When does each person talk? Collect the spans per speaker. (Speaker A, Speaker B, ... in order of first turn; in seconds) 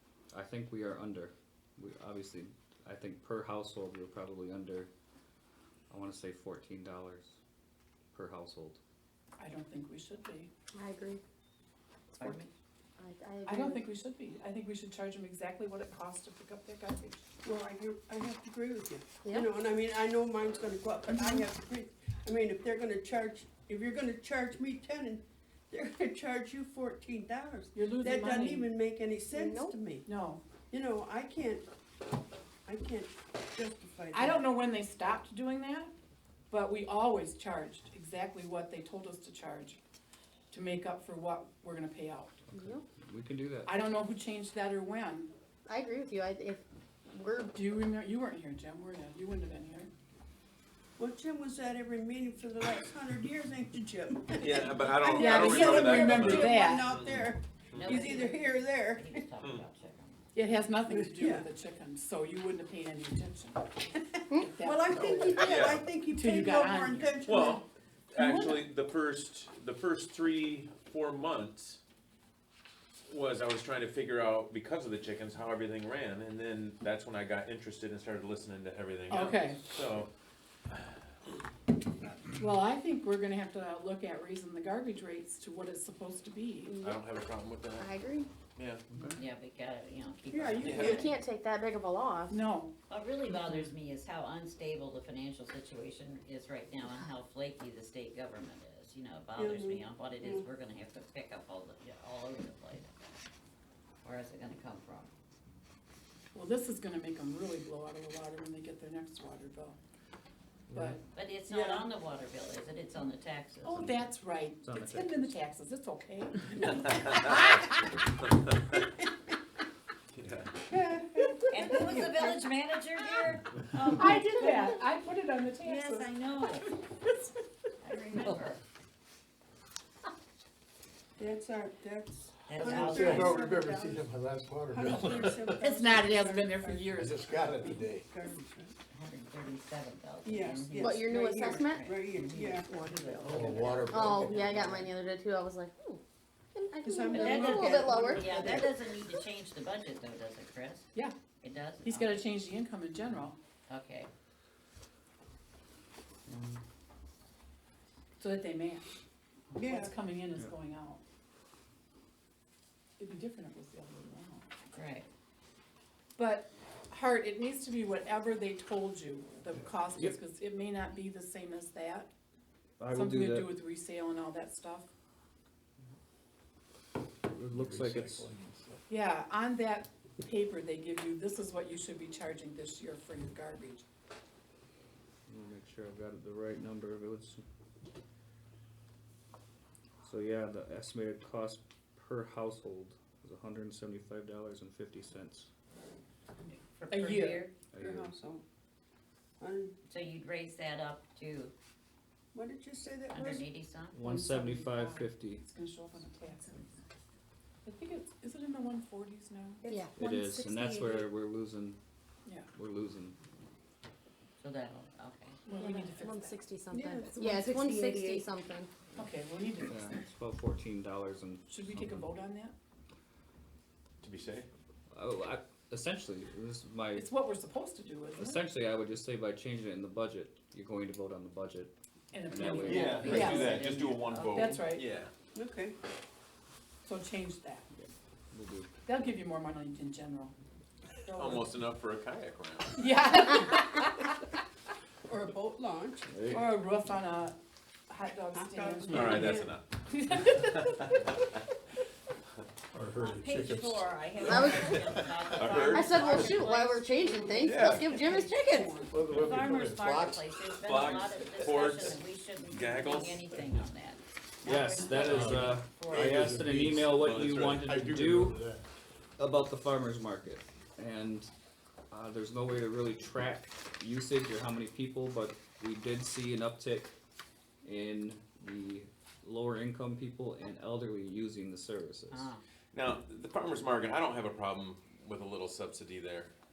Speaker A: 0.3-4.9, 5.9-7.4, 8.1-8.8, 42.5-43.8, 88.9-89.2, 110.7-111.0, 113.8-114.0, 114.6-115.3, 156.3-156.6, 172.8-173.5, 177.3-178.3, 185.3-187.4, 190.0-195.5, 197.7-198.1, 203.9-205.4, 210.0-211.8, 212.5-213.2, 219.7-222.1, 224.9-227.1, 228.2-231.7, 232.3-233.3, 237.8-238.7, 246.1-246.4, 264.4-268.4, 269.2-271.3, 271.9-277.0, 277.6-282.3
Speaker B: 9.4-10.5, 13.5-17.2, 27.8-28.7, 30.1-30.4, 34.1-35.9, 36.5-39.8, 40.5-42.4, 43.6-45.3, 47.5-49.9, 55.1-56.9, 60.3-67.2, 68.2-68.6, 79.1-79.6, 82.4-86.7, 92.3-92.7, 106.3-109.8, 110.7-111.0, 113.6-118.0, 121.6-122.1, 123.9-126.1, 135.6-137.2, 151.8-153.4, 158.2-158.9, 159.6-161.0, 163.0-164.5, 166.2-172.1, 172.9-174.9, 178.9-183.8, 196.5-197.5, 204.0-206.7, 207.7-209.7, 215.5-216.4, 218.9-220.0, 221.5-222.6, 226.9-228.4, 232.1-233.6, 234.3-234.8, 236.8-237.7, 238.8-240.3, 241.0-241.5, 242.8-244.4, 246.3-247.4, 247.9-251.1
Speaker C: 10.7-11.2, 13.0-13.8, 19.2-19.5, 29.3-29.8, 42.5-42.8, 45.7-46.6, 47.1-47.6, 86.7-87.0, 87.8-88.3, 90.8-92.4, 140.7-141.9, 142.6-143.1, 143.8-146.0, 146.5-148.6, 209.6-211.1, 215.5-218.7, 254.2-255.0, 255.6-258.8
Speaker D: 12.2-12.5, 57.7-60.2, 89.2-91.2, 92.9-102.9, 104.0-105.1, 111.1-113.9, 121.5-124.6, 125.6-126.7, 127.8-128.6, 132.5-133.5, 138.9-144.9, 147.1-150.9, 151.4-152.2, 153.7-154.1, 164.7-165.1, 196.8-197.5, 199.9-201.5, 203.1-204.0, 214.4-215.4, 232.5-234.6, 252.9-257.7, 259.0-266.3, 282.1-282.4
Speaker E: 17.4-30.1, 30.7-31.6, 32.7-34.4, 51.0-59.3, 60.9-61.5, 64.6-67.7, 90.3-91.1, 99.4-100.5, 111.5-111.9, 120.7-122.4, 131.2-134.1, 134.7-138.8, 140.2-143.8, 146.8-148.7, 159.6-159.9, 197.8-198.4, 199.4-199.8, 202.3-203.4, 216.7-218.2, 235.3-235.8, 245.1-246.2, 248.3-249.6, 257.4-259.4
Speaker F: 54.4-58.0, 59.4-59.6, 65.4-65.9, 67.2-71.8, 73.1-80.1, 86.8-88.0, 88.6-88.8, 90.6-91.0, 116.7-117.5, 118.3-118.6, 120.1-120.6, 224.0-224.5, 232.6-235.1, 241.2-242.8, 248.9-249.7, 250.4-251.1, 255.3-256.4, 257.4-258.0, 260.6-263.2, 266.3-267.7, 282.7-286.3
Speaker G: 132.6-135.7, 136.9-138.1, 143.2-144.8, 177.5-178.8, 252.7-255.6, 258.9-260.3, 261.1-261.7, 265.0-268.6